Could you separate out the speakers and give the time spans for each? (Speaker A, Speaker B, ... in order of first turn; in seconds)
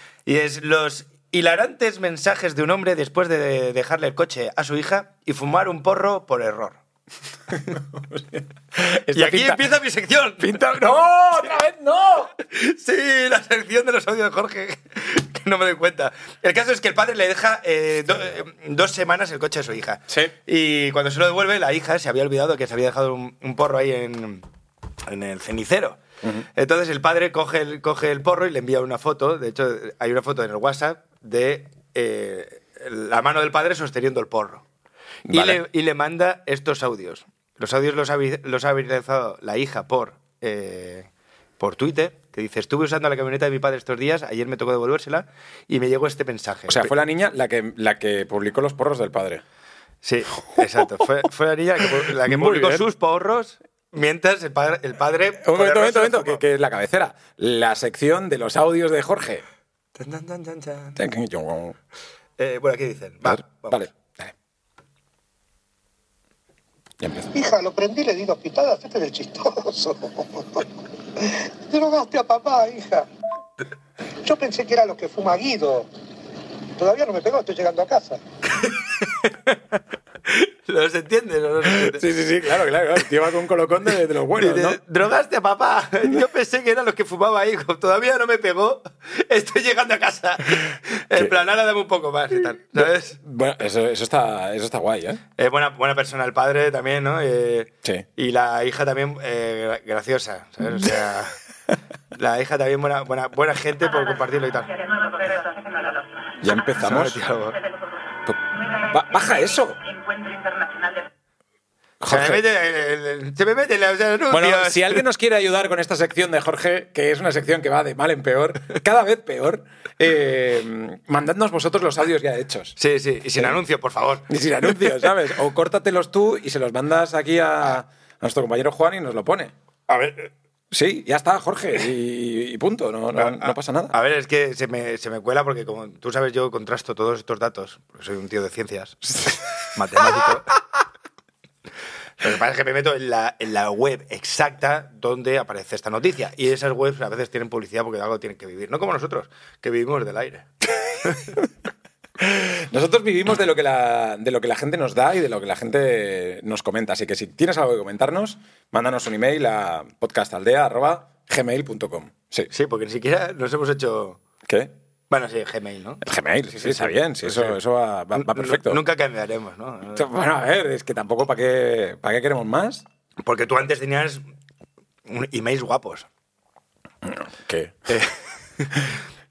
Speaker A: 0.3-6.8, 9.1-10.6, 12.4-24.4, 25.1-34.6, 35.3-46.9, 50.0-56.4, 60.0-61.0, 62.4-63.9, 78.5-79.8, 80.3-82.1, 84.3-93.2, 95.4-101.4, 102.1-105.3, 106.8-107.6, 112.1-115.0, 122.8-124.3, 129.9-130.3, 133.2-140.5, 142.2-150.5, 151.0-151.3, 162.5-164.2, 165.1-166.0, 166.6-167.6, 168.1-170.1, 173.2-174.2, 175.1-176.1, 177.9-178.9
Speaker B: 7.5-9.6, 10.4-12.3, 35.3-35.6, 46.7-49.4, 50.6-51.0, 52.0-52.8, 55.4-59.4, 61.0-61.8, 63.3-64.3, 67.0-67.3, 81.7-84.8, 92.8-95.2, 106.4-107.2, 108.3-109.9, 112.0-112.4, 114.3-122.8, 124.3-129.5, 130.7-134.0, 152.2-162.5, 164.4-164.7, 166.0-168.8, 169.9-172.8, 177.0-177.9
Speaker C: 67.3-73.1, 74.2-75.9, 76.8-78.2